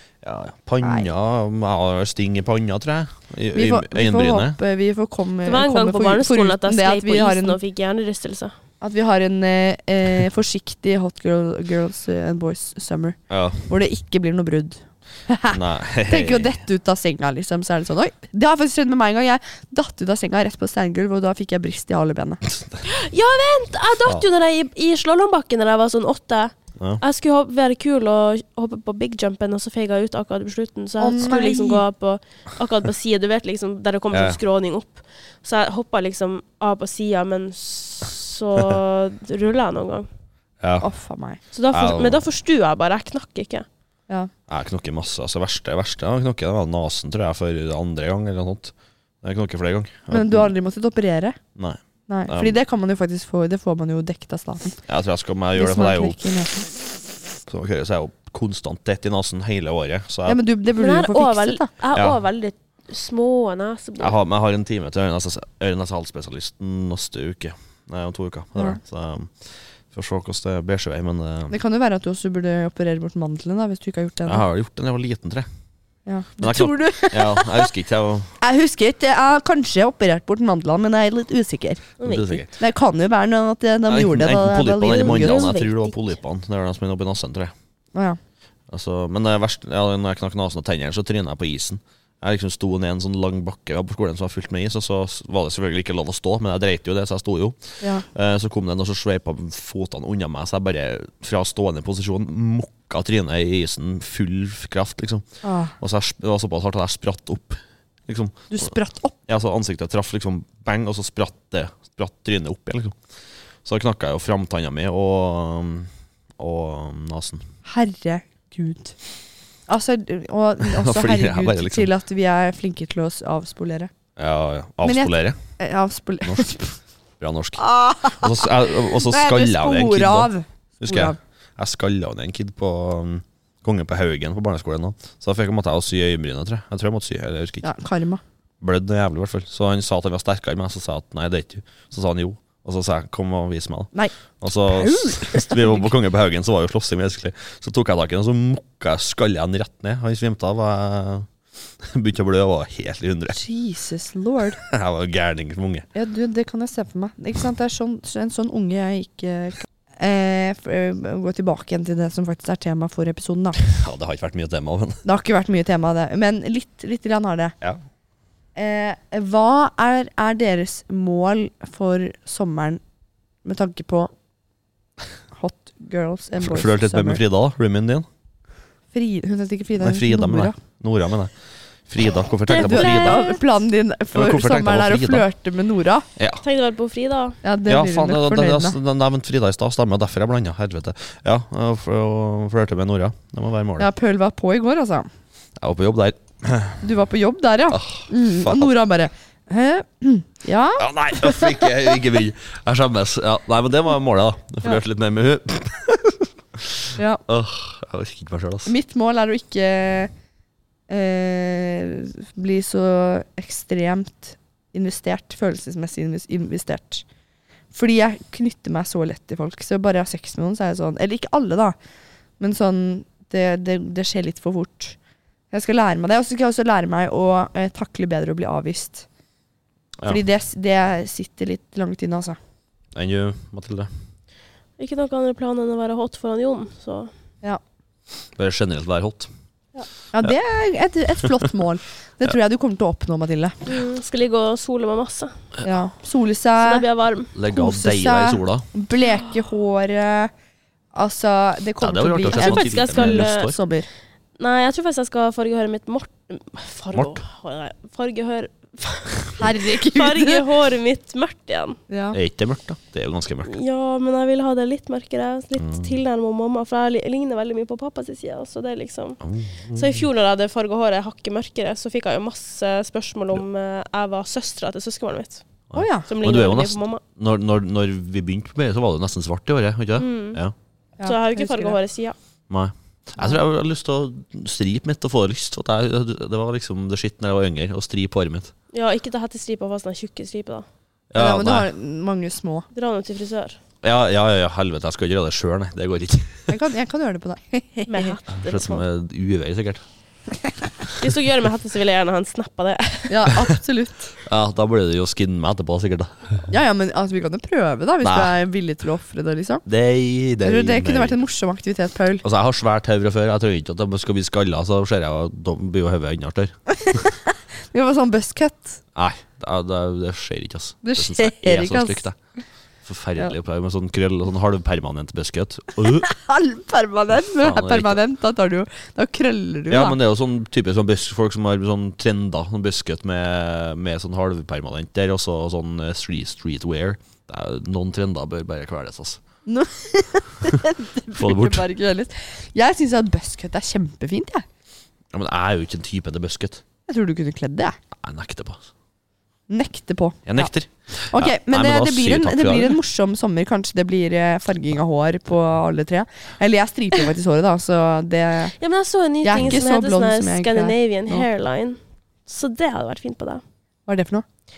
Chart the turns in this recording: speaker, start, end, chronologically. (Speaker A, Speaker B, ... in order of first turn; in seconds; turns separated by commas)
Speaker A: 0.2-4.6, Speaker B: 0.8-1.1, Speaker B: 3.5-7.6, Speaker C: 5.4-8.5, Speaker B: 8.8-22.4, Speaker A: 13.3-13.6, Speaker A: 15.5-16.6, Speaker A: 22.5-22.8, Speaker C: 22.9-40.1, Speaker B: 31.0-31.8, Speaker A: 34.1-34.4, Speaker A: 40.6-40.9, Speaker B: 40.8-41.4, Speaker C: 41.5-43.6, Speaker A: 41.7-42.2, Speaker A: 44.5-50.5, Speaker B: 50.1-51.4, Speaker A: 51.5-52.5, Speaker B: 52.1-54.8, Speaker A: 54.9-56.3, Speaker B: 55.5-56.7, Speaker A: 57.5-60.4, Speaker B: 60.3-61.7, Speaker C: 60.8-64.2, Speaker A: 61.9-62.2, Speaker A: 64.0-71.5, Speaker B: 71.5-74.4, Speaker A: 74.3-75.5, Speaker B: 76.0-77.7, Speaker A: 76.4-78.3, Speaker B: 78.4-81.9, Speaker C: 82.0-82.4, Speaker A: 82.0-82.5, Speaker B: 82.5-85.5, Speaker A: 83.9-87.5, Speaker C: 84.9-86.1, Speaker A: 88.7-105.2, Speaker B: 105.4-105.7, Speaker A: 105.8-108.7, Speaker B: 108.5-109.2, Speaker A: 109.3-113.0, Speaker A: 113.6-117.4, Speaker B: 117.7-119.0, Speaker B: 119.7-123.9, Speaker A: 120.6-121.9, Speaker A: 124.2-125.4, Speaker B: 124.8-126.8, Speaker A: 127.2-137.7, Speaker B: 127.6-131.2, Speaker B: 137.6-138.2, Speaker A: 138.6-151.3, Speaker B: 144.7-145.9, Speaker A: 151.8-153.4, Speaker B: 153.3-154.6, Speaker A: 154.6-155.8, Speaker B: 155.9-163.6, Speaker A: 163.6-165.0, Speaker B: 165.0-167.5, Speaker B: 168.6-172.8, Speaker B: 173.4-174.1, Speaker B: 175.3-177.2, Speaker A: 176.4-178.1, Speaker B: 178.9-180.6, Speaker A: 179.8-181.3, Speaker A: 181.9-183.2, Speaker C: 182.5-183.4, Speaker B: 182.5-186.1, Speaker A: 184.1-185.2, Speaker A: 186.2-186.4, Speaker C: 186.4-187.4, Speaker B: 187.4-188.8, Speaker A: 187.7-193.9, Speaker B: 193.8-195.1, Speaker A: 195.6-196.8, Speaker B: 196.8-201.7, Speaker A: 197.7-198.7, Speaker A: 200.8-208.7, Speaker B: 208.7-210.1, Speaker B: 210.9-217.0, Speaker B: 217.7-221.7, Speaker B: 222.4-224.9, Speaker B: 225.5-229.1, Speaker B: 230.1-232.4, Speaker A: 232.9-233.9, Speaker C: 234.8-237.1, Speaker A: 238.3-239.3, Speaker B: 240.1-243.6, Speaker C: 243.7-245.4, Speaker B: 245.6-246.8, Speaker C: 246.6-247.3, Speaker A: 247.3-248.7, Speaker B: 247.5-250.3, Speaker B: 250.9-253.8, Speaker A: 251.8-253.6, Speaker C: 252.3-253.5, Speaker C: 254.4-261.8, Speaker A: 256.9-257.2, Speaker B: 259.4-260.4, Speaker B: 261.9-262.2, Speaker A: 262.1-263.5, Speaker C: 263.4-269.2, Speaker A: 265.6-265.9, Speaker A: 269.2-270.0, Speaker C: 269.7-275.4, Speaker A: 275.7-280.5, Speaker B: 275.7-276.1, Speaker C: 276.1-277.0, Speaker C: 280.0-280.4, Speaker B: 281.0-281.8, Speaker C: 281.0-282.1, Speaker A: 282.5-288.5, Speaker C: 288.7-290.6, Speaker A: 291.1-291.7, Speaker B: 291.1-292.6, Speaker C: 292.7-293.6, Speaker A: 293.8-296.5, Speaker B: 296.5-298.2, Speaker C: 297.9-298.8, Speaker A: 298.3-299.8, Speaker C: 300.9-303.3, Speaker B: 303.1-304.1, Speaker A: 304.2-306.5, Speaker B: 306.5-309.6, Speaker A: 308.0-308.3, Speaker A: 309.6-311.1, Speaker B: 310.4-312.2, Speaker A: 312.2-317.0, Speaker B: 316.8-318.8, Speaker A: 318.9-322.1, Speaker B: 320.8-322.1, Speaker A: 322.8-326.1, Speaker B: 325.9-330.0, Speaker A: 327.2-328.0, Speaker A: 329.7-339.2, Speaker B: 339.4-344.4, Speaker A: 341.1-341.6, Speaker A: 345.1-346.6, Speaker B: 346.9-347.8, Speaker A: 347.9-348.7, Speaker B: 349.5-350.5, Speaker A: 350.2-352.8, Speaker B: 351.1-358.5, Speaker C: 358.6-363.4, Speaker B: 359.2-361.3, Speaker B: 363.9-364.2